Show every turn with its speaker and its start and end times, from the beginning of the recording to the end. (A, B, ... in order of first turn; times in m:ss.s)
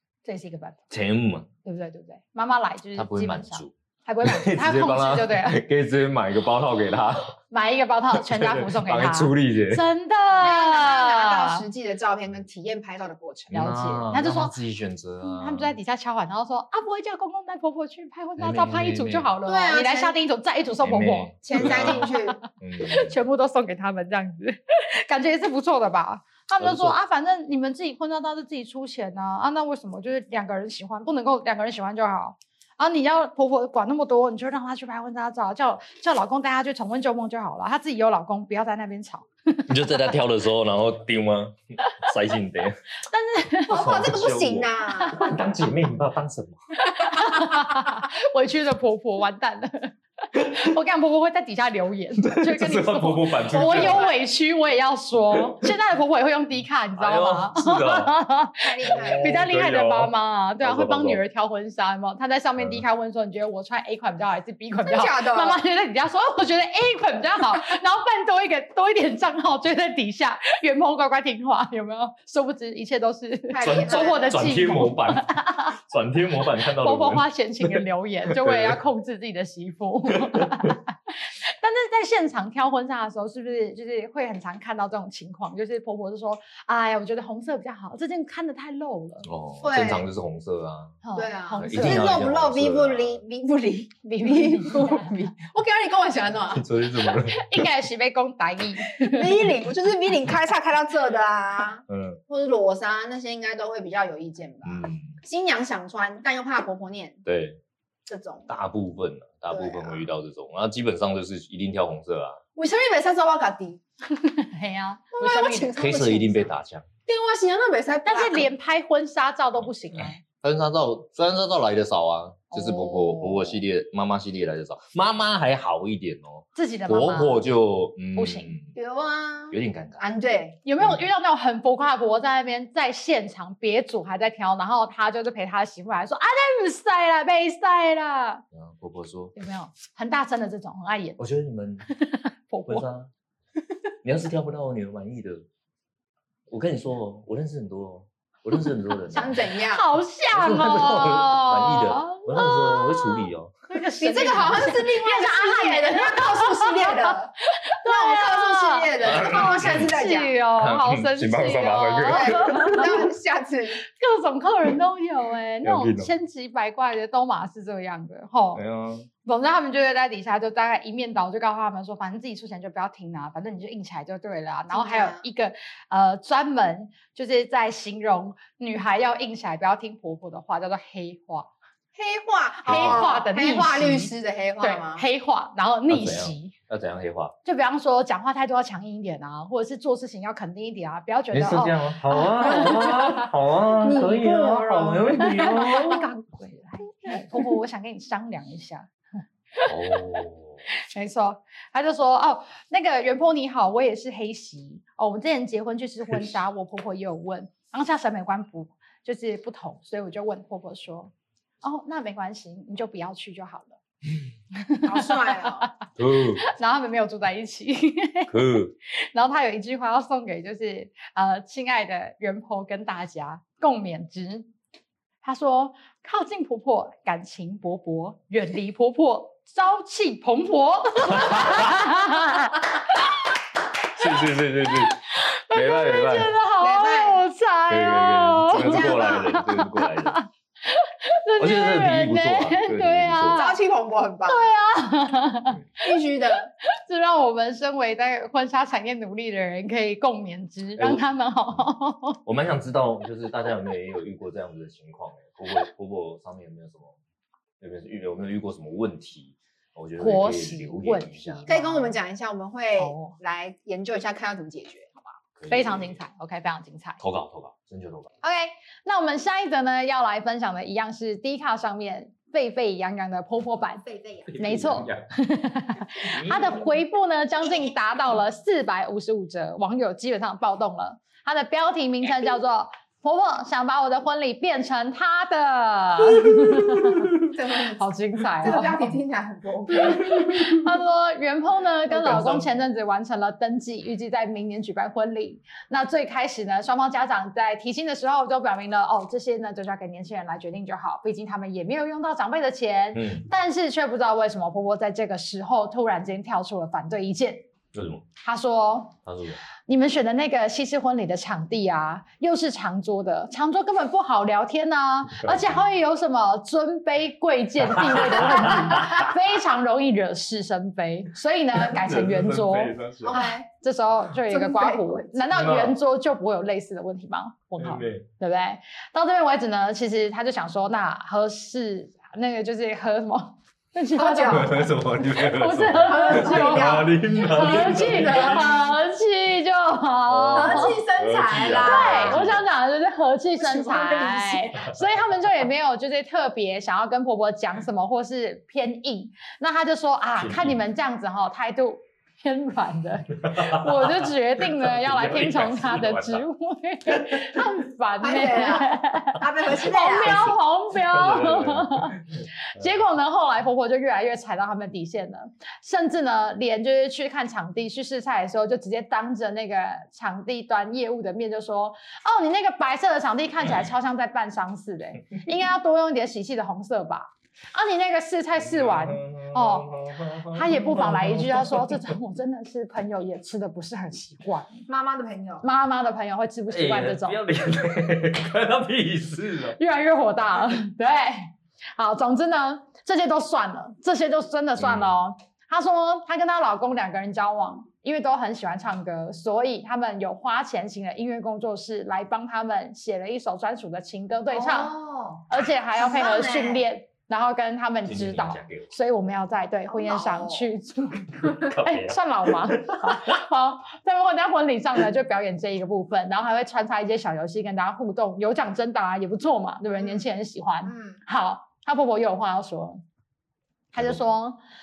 0:00.2-0:00.8 A
0:00.9-0:01.5 B
0:01.6-0:05.6 A
0:02.9-0:03.7 B
0:04.2-0:07.3 B
0:07.5-0:11.6 A
0:08.2-0:09.8 B
0:10.4-0:13.6 C
0:13.5-0:15.8 B
0:13.5-0:14.5 A
0:15.2-0:40.0 A
0:18.4-0:19.3 B
0:19.4-0:20.2 C
0:20.8-0:23.2 B
0:21.4-0:22.4 C
0:26.6-0:27.0 B
0:39.7-0:42.8 B
0:43.1-0:43.9 A
0:43.7-0:45.2 C
0:43.7-0:46.6 B
0:46.8-1:15.7 A
0:52.2-0:54.1 B
0:53.5-0:54.1 C
0:55.3-0:55.7 B
0:57.0-0:58.1 B
0:58.6-0:59.5 C
0:58.9-1:01.2 B
1:04.8-1:05.6 C
1:13.5-1:14.5 C
1:13.6-1:17.7 B
1:16.8-1:29.3 A
1:18.3-1:18.8 B
1:20.2-1:20.7 B
1:29.2-1:31.0 B
1:29.6-1:30.0 C
1:31.0-1:32.2 A
1:31.2-1:36.6 C
1:31.6-1:33.2 B
1:34.1-1:35.2 A
1:36.5-1:37.7 B
1:37.0-1:39.4 A
1:38.9-1:47.2 C
1:41.9-1:42.2 B
1:44.6-1:45.2 B
1:47.2-1:47.6 B
1:48.1-1:48.5 C
1:48.5-1:52.4 B
1:49.5-1:50.0 C
1:52.6-1:53.8 C
1:54.1-1:55.7 A
1:55.1-1:56.5 C
1:55.7-1:56.9 B
1:57.1-1:58.5 C
1:58.0-2:00.2 A
2:00.3-2:08.7 B
2:02.5-2:03.4 A
2:06.5-2:07.5 A
2:08.1-2:08.6 A
2:08.8-2:10.6 C
2:09.5-2:10.0 B
2:10.6-2:18.4 A
2:18.5-2:19.3 B
2:19.3-2:21.2 A
2:21.2-2:21.9 B
2:21.9-2:22.8 A
2:22.7-2:23.1 B
2:24.0-2:25.4 B
2:26.5-2:29.4 B
2:29.1-2:29.8 C
2:29.2-2:43.1 A
2:30.3-2:33.5 B
2:34.0-2:40.4 C
2:39.0-2:39.9 B
2:40.6-2:42.9 B
2:42.0-2:43.8 C
2:43.9-2:48.6 A
2:45.6-2:46.1 B
2:48.5-2:49.1 B
2:49.2-3:01.5 A
2:54.7-2:55.2 C
3:01.9-3:05.0 C
3:02.6-3:06.5 A
3:02.7-3:03.0 B
3:05.9-3:07.3 B
3:07.4-3:13.2 A
3:11.3-3:16.0 B
3:12.4-3:13.1 C
3:13.8-3:15.6 C
3:15.2-3:18.9 A
3:19.5-3:33.8 A
3:19.6-3:20.6 B
3:34.5-3:35.6 A
3:34.8-3:35.7 C
3:36.0-3:36.4 B
3:36.4-3:38.3 A
3:38.3-3:38.7 B
3:38.9-3:44.5 A
3:45.2-3:53.2 A
3:51.1-3:51.8 B
3:54.0-3:56.3 B
3:54.0-4:03.6 A
3:56.6-3:57.2 C
3:57.7-4:00.2 B
3:58.5-3:59.3 C
4:01.4-4:03.4 B
4:03.3-4:04.4 C
4:04.3-4:05.6 A
4:05.8-4:06.5 C
4:06.6-4:12.2 A
4:10.8-4:11.0 B
4:12.2-4:17.0 B
4:17.6-4:21.5 B
4:20.0-4:22.0 A
4:21.5-4:25.1 C
4:22.8-4:23.2 A
4:25.4-4:26.0 B
4:25.5-4:27.0 A
4:27.0-4:28.1 B
4:28.2-4:33.8 A
4:33.8-4:34.3 C
4:34.3-4:35.1 B
4:34.4-4:48.9 A
4:36.0-4:36.7 B
4:47.2-4:47.9 C
4:48.4-4:50.5 C
4:49.7-5:07.4 A
4:51.9-4:52.4 B
5:02.9-5:03.2 B
5:07.7-5:08.0 B
5:08.2-5:09.0 A
5:09.0-5:09.4 B
5:09.7-5:40.8 A
5:15.2-5:15.6 B
5:17.6-5:19.1 B
5:21.5-5:23.2 B
5:23.0-5:23.5 C
5:24.3-5:25.2 C
5:25.3-5:25.8 B
5:27.6-5:28.0 B
5:34.0-5:34.6 C
5:34.2-5:38.6 B
5:35.6-5:38.6 C
5:40.1-5:42.4 B
5:40.3-5:42.3 C
5:41.6-6:19.7 A
5:43.4-5:44.6 C
5:50.2-5:50.6 B
5:53.2-5:56.2 B
5:56.9-5:57.4 B
5:58.0-6:00.3 C
6:00.0-6:02.7 B
6:18.4-6:21.9 B
6:20.2-6:24.6 A
6:24.7-6:25.4 C
6:25.4-6:27.2 A
6:26.5-6:29.6 B
6:29.6-6:44.7 A
6:34.6-6:34.9 B
6:44.3-6:46.6 C
6:45.3-7:02.8 A
6:47.8-6:48.7 B
6:49.7-6:50.5 C
6:51.2-6:53.2 B
6:59.8-7:00.0 C
7:00.6-7:01.0 C
7:03.7-7:04.4 A